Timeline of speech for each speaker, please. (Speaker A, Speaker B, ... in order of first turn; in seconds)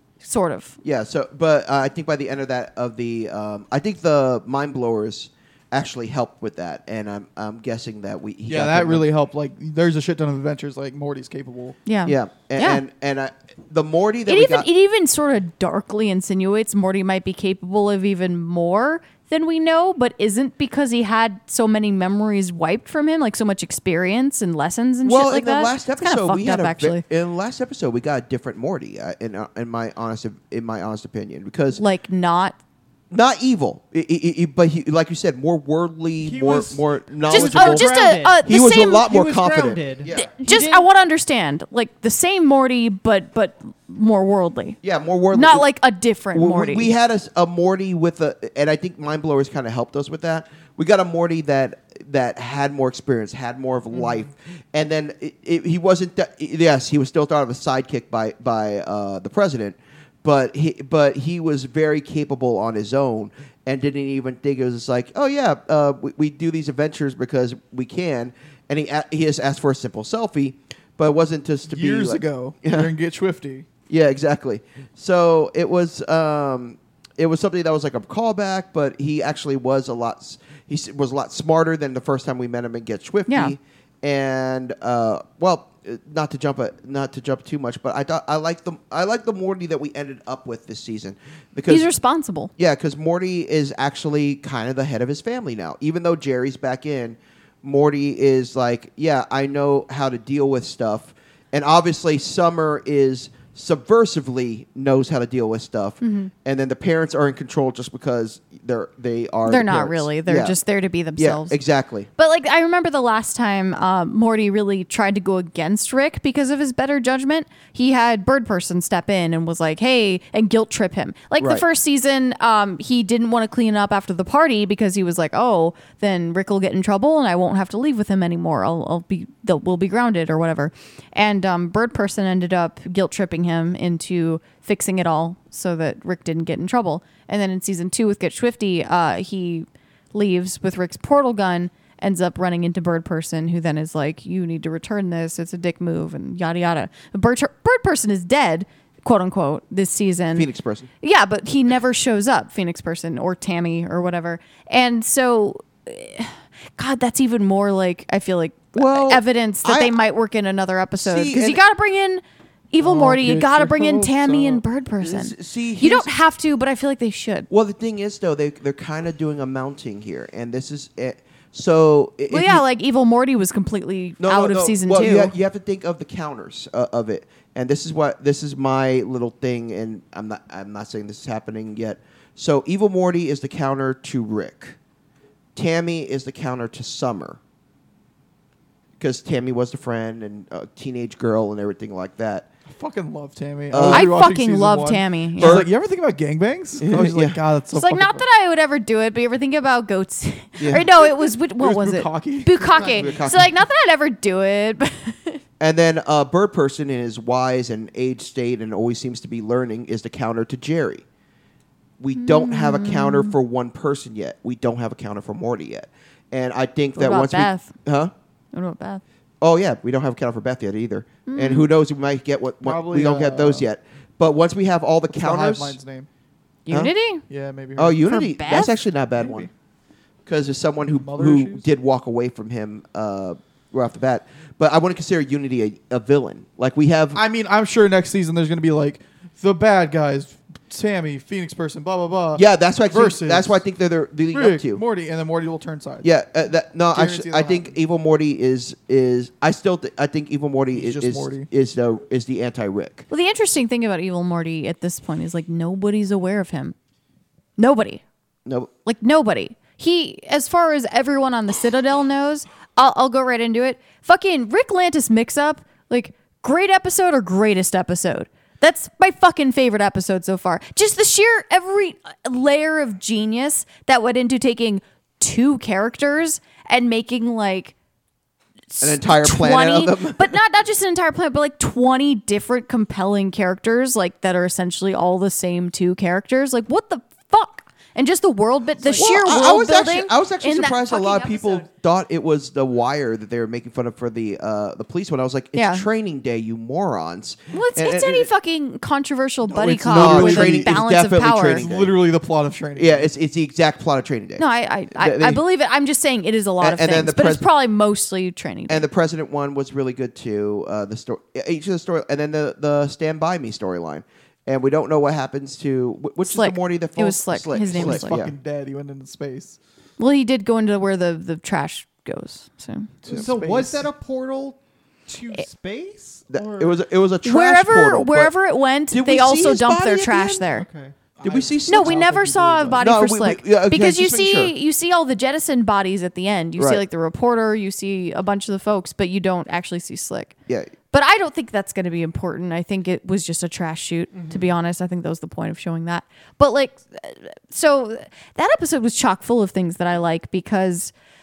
Speaker A: 0.2-0.8, 11.8-12.8, 14.3-27.0, 31.7-32.6, 37.3-39.1, 40.1-44.8, 45.3-46.9, 83.3-83.5, 91.7-92.5, 106.0-106.3, 109.5-111.6, 112.2-150.5, 151.0-167.5, 172.3-175.3, 193.8-195.7, 197.7-205.4, 212.1-213.3, 216.9-217.7, 218.5-219.0, 221.3-221.7, 226.7-227.2, 228.0-228.7, 253.1-256.7, 257.6-258.0, 258.9-277.7, 278.7-291.6, 295.5-295.8, 297.5-301.6, 304.4-308.8, 316.2-318.1, 320.0-322.9, 327.2-330.7, 331.7-340.3, 340.9-350.9
Speaker B: 0.8-9.1, 12.1-14.7, 25.0-31.8, 33.1-37.9, 38.4-40.3, 44.8-45.7, 46.3-72.9, 73.9-91.9, 92.6-110.6, 111.2-112.1, 121.4-121.6, 150.3-150.9, 158.7-159.9, 161.0-161.6, 165.0-166.1, 167.5-172.6, 174.2-184.8, 185.5-187.4, 189.0-192.5, 193.7-194.1, 195.4-195.7, 196.8-197.4, 200.6-200.8, 202.8-203.5, 205.6-211.0, 212.0-218.1, 219.4-225.8, 227.8-229.5, 230.2-237.2, 242.3-244.8, 246.0-253.1, 258.4-258.7, 278.8-280.4, 288.9-298.3, 299.9-301.9, 302.8-305.4, 306.6-307.4, 308.7-318.3, 326.3-328.3, 328.9-330.6, 331.2-332.1, 332.8-334.5, 336.6-336.8, 340.5-340.7
Speaker C: 8.5-11.8, 71.7-73.7, 162.8-164.6, 192.7-198.2, 200.7-202.8, 222.6-223.7, 225.1-226.1, 227.3-228.0, 229.2-229.5, 231.0-231.6, 237.1-243.6, 244.3-246.1, 246.9-247.7, 250.7-251.5, 299.4-300.8, 301.4-303.1, 317.7-319.6, 323.0-323.9, 331.2-332.9
Speaker D: 36.2-40.9, 53.9-54.2, 202.7-203.1, 323.1-326.8, 330.5-330.9, 344.1-344.5